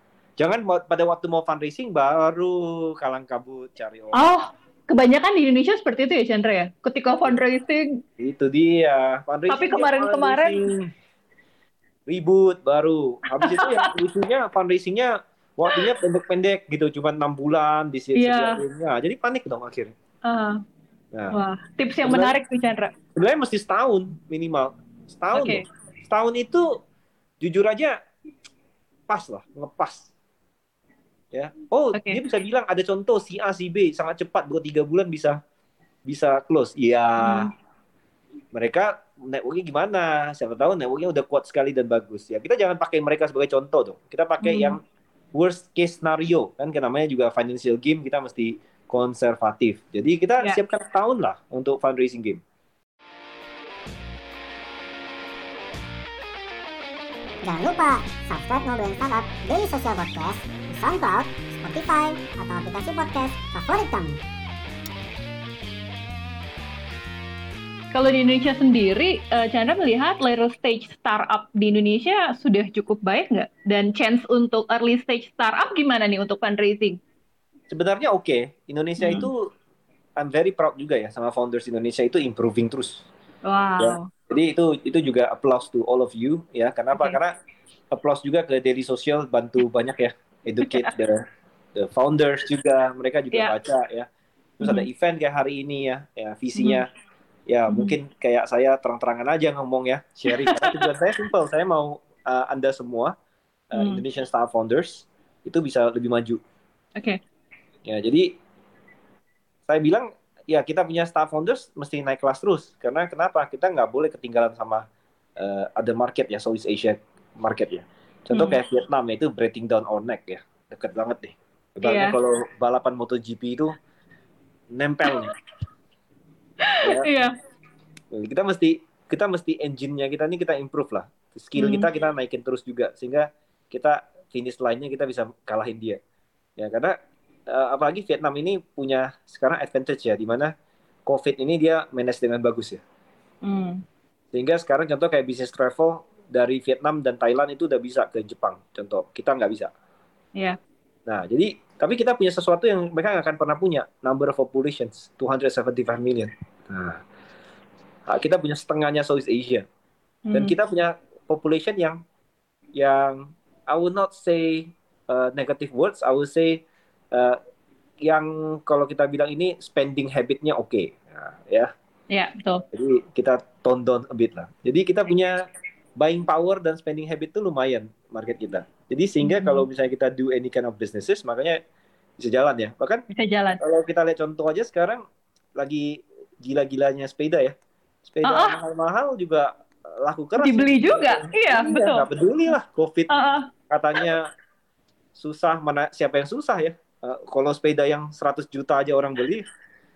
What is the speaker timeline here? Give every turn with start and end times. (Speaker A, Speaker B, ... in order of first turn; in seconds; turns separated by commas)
Speaker A: 0.4-4.3, Speaker B: 4.2-8.0, Speaker A: 8.2-10.9, Speaker B: 9.5-10.6, Speaker A: 12.1-19.9, Speaker B: 13.4-13.9, Speaker B: 18.1-18.6, Speaker B: 20.2-20.6, Speaker B: 21.3-22.9, Speaker A: 22.0-22.3, Speaker A: 23.1-26.8, Speaker B: 25.3-25.6, Speaker A: 27.4-28.0, Speaker A: 29.1-30.1, Speaker A: 31.3-35.4, Speaker A: 36.1-37.5, Speaker B: 37.2-37.5, Speaker A: 38.5-44.8, Speaker B: 44.4-44.8, Speaker A: 45.3-52.4, Speaker C: 57.4-64.2, Speaker B: 67.9-77.0, Speaker A: 77.7-79.5, Speaker B: 79.0-79.3, Speaker A: 80.2-83.0, Speaker B: 83.4-84.1, Speaker A: 83.8-87.3, Speaker B: 86.9-87.2, Speaker A: 87.9-91.2, Speaker B: 90.6-90.9, Speaker A: 91.8-94.1, Speaker B: 94.6-94.9, Speaker A: 94.6-96.9, Speaker B: 96.5-96.8, Speaker A: 97.5-103.1, Speaker B: 100.3-100.8, Speaker A: 103.7-106.4, Speaker B: 103.7-104.0, Speaker A: 107.8-108.3, Speaker A: 109.7-114.8, Speaker A: 115.4-123.8, Speaker B: 118.3-118.6, Speaker B: 121.8-122.2, Speaker A: 124.7-125.3, Speaker B: 126.6-127.3, Speaker A: 126.8-127.1, Speaker A: 128.1-136.0, Speaker B: 131.6-131.9, Speaker A: 136.6-137.0, Speaker A: 137.5-140.5, Speaker A: 141.1-142.8, Speaker B: 143.4-143.8, Speaker A: 144.3-149.7, Speaker A: 151.1-157.0, Speaker A: 158.1-159.6, Speaker B: 160.2-160.5, Speaker A: 160.3-162.0, Speaker A: 162.7-166.6, Speaker A: 167.1-167.4, Speaker A: 168.0-171.7, Speaker B: 172.1-172.6, Speaker A: 172.7-175.4, Speaker A: 176.0-181.6, Speaker B: 179.2-179.7, Speaker A: 182.2-183.0, Speaker B: 183.1-183.6, Speaker A: 183.6-185.0, Speaker A: 185.6-187.5, Speaker A: 188.1-193.1, Speaker B: 188.2-188.6, Speaker B: 190.4-192.1, Speaker B: 193.1-193.5, Speaker A: 193.7-194.2, Speaker A: 195.2-199.4